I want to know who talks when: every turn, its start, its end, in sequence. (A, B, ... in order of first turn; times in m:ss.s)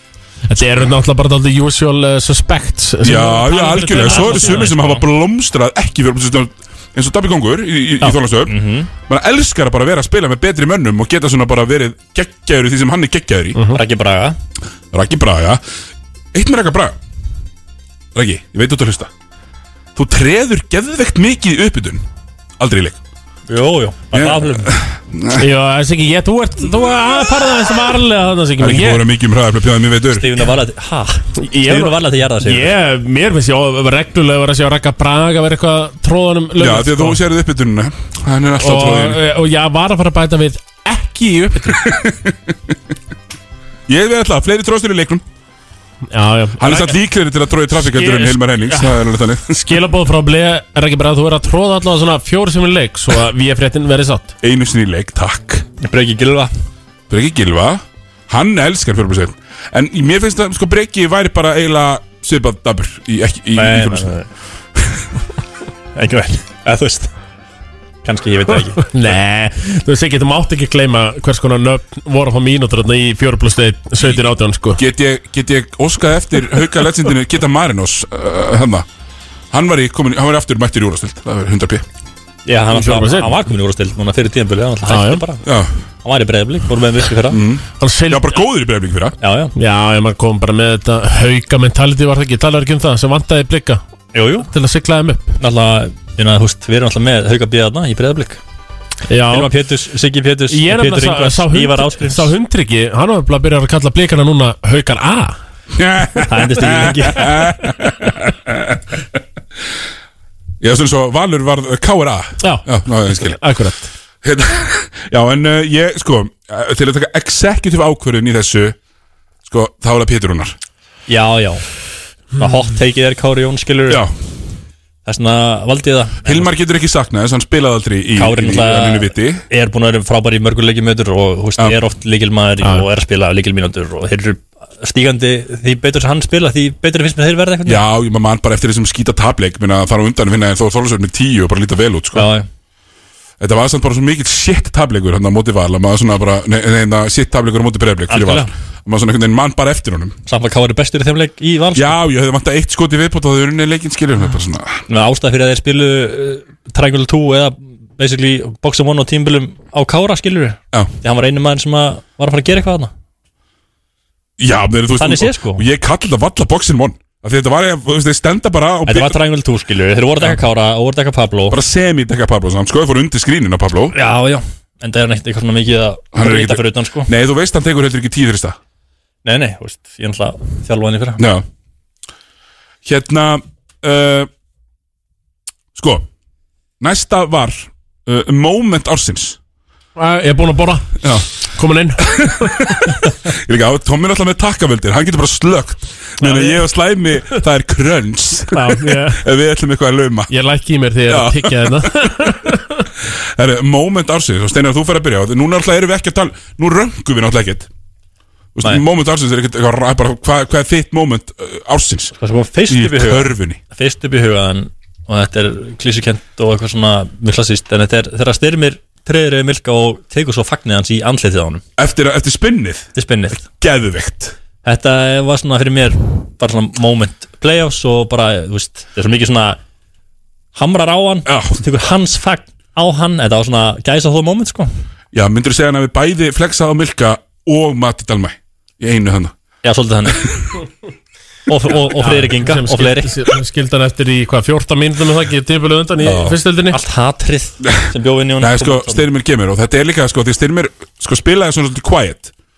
0:00.5-0:04.7 A
0:03.0-0:13.6 B
0:03.9-0:05.0 C
0:08.4-0:08.9 C
0:13.6-0:13.8 A
0:13.7-0:14.4 C
0:14.9-0:15.6 B
0:16.3-0:17.0 B
0:18.2-0:19.1 B
0:20.0-0:22.0 B
0:22.6-0:23.0 B
0:23.5-0:24.7 C
0:24.1-0:25.4 B
0:25.4-0:29.1 A
0:28.6-0:30.3 B
0:30.1-0:32.8 C
0:31.4-0:37.2 A
0:36.6-0:39.2 B
0:38.6-0:41.9 A
0:41.7-0:42.4 B
0:43.9-0:45.2 B
0:46.1-0:47.0 A
0:46.6-0:49.6 B
0:47.8-0:54.3 A
0:54.4-0:55.6 B
0:55.8-0:56.5 C
0:57.1-1:04.2 B
1:03.6-1:04.3 C
1:05.9-1:07.1 C
1:08.0-1:08.9 C
1:08.8-1:14.8 A
1:14.8-1:18.8 B
1:19.5-1:21.8 B
1:22.4-1:25.4 C
1:22.7-1:23.4 A
1:24.8-1:25.2 A
1:25.4-1:25.7 B
1:26.0-1:27.4 C
1:27.3-1:29.2 B
1:27.8-1:28.4 A
1:29.2-1:29.5 C
1:29.6-1:33.8 A
1:34.1-1:34.5 C
1:34.5-1:35.4 A
1:35.4-1:38.4 C
1:39.1-1:39.5 A
1:39.3-1:42.3 C
1:40.5-1:45.4 A
1:45.7-1:48.8 B
1:46.3-1:47.4 C
1:50.6-1:53.4 B
1:52.4-1:53.9 A
1:54.2-1:58.8 B
1:59.5-2:00.6 B
2:01.1-2:01.6 C
2:02.4-2:04.0 C
2:05.0-2:06.5 C
2:06.2-2:09.4 B
2:08.2-2:17.8 C
2:17.6-2:22.3 B
2:22.1-2:22.5 C
2:23.4-2:30.2 B
2:28.1-2:28.5 C
2:30.3-2:32.0 C
2:31.7-2:34.8 B
2:34.9-2:42.9 C
2:44.4-2:49.2 B
2:45.0-2:45.6 C
2:48.8-2:51.6 C
2:51.5-2:53.9 B
2:53.9-2:57.1 C
2:56.1-2:58.6 B
2:59.2-3:01.2 C
3:01.2-3:01.4 B
3:02.8-3:04.3 B
3:05.7-3:06.1 B
3:06.8-3:09.4 B
3:10.0-3:11.0 A
3:11.5-3:13.0 A
3:12.2-3:20.3 B
3:16.2-3:16.6 A
3:18.5-3:19.2 A
3:20.3-3:22.8 A
3:21.1-3:22.3 B
3:23.4-3:27.7 B
3:28.6-3:32.1 B
3:32.2-3:41.6 C
3:32.7-3:33.6 B
3:41.8-3:44.4 B
3:42.9-3:43.4 C
3:44.6-3:49.6 C
3:50.5-3:54.7 C
3:51.3-3:51.6 B
3:55.1-3:59.3 B
3:59.6-4:00.3 C
4:01.5-4:03.2 C
4:02.0-4:06.8 A
4:06.0-4:06.4 B
4:06.7-4:09.1 C
4:08.4-4:12.3 B